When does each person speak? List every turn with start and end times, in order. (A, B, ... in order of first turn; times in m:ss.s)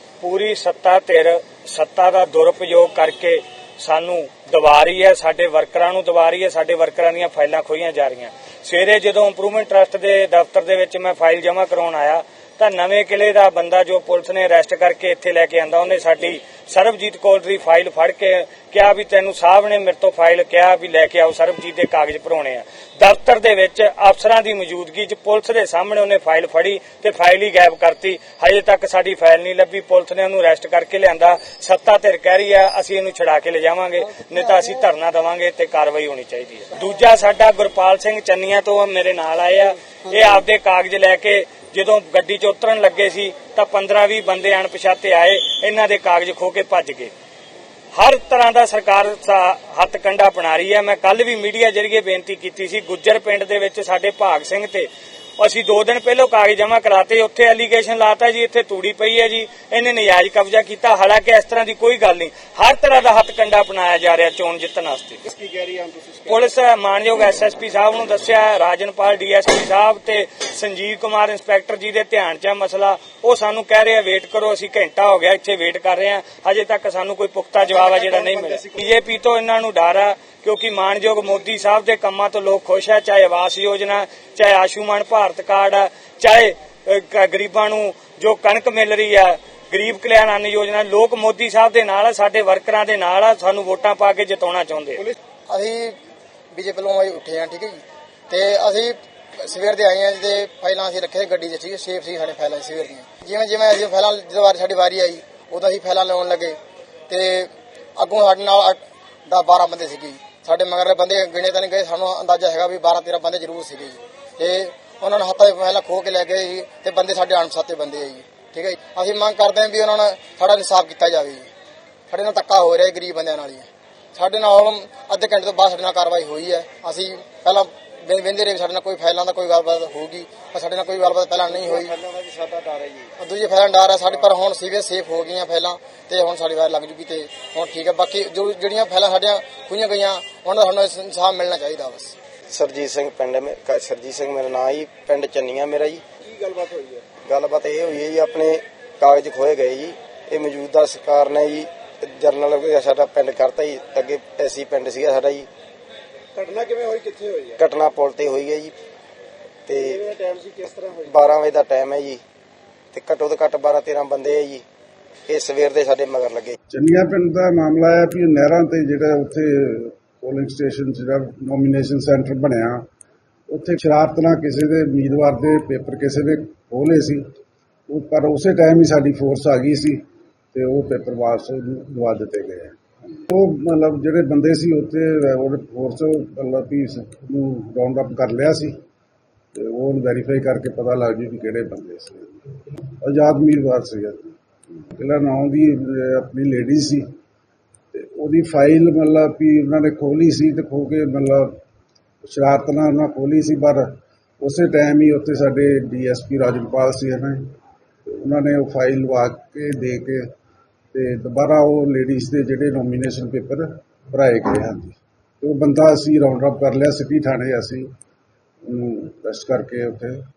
0:00.2-0:47.1 A
0:47.9-1:05.2 A
1:05.3-1:06.2 B
1:06.3-1:35.1 A
1:35.5-1:36.0 C
1:36.5-1:46.6 C
1:47.1-2:01.5 C
2:02.1-2:12.0 C
2:11.4-2:13.1 D
2:13.2-2:22.2 C
2:22.5-2:26.0 D
2:26.3-2:27.0 B
2:27.2-2:35.5 D
2:36.3-2:37.6 B
2:37.6-2:38.7 D
2:39.6-2:40.1 D
2:40.1-2:41.1 B
2:41.0-2:42.2 D
2:42.9-2:44.6 D
2:45.3-2:46.5 D
2:46.7-2:52.9 E
2:53.5-2:57.2 E
2:57.9-3:00.0 E
3:00.5-3:02.8 E
3:03.3-3:08.8 E
3:09.5-3:14.4 E
3:14.9-3:17.1 E
3:17.9-3:21.6 E
3:22.2-3:23.9 E
3:24.4-3:27.5 E
3:28.0-3:30.3 E
3:30.9-3:37.9 E
3:38.6-3:40.2 E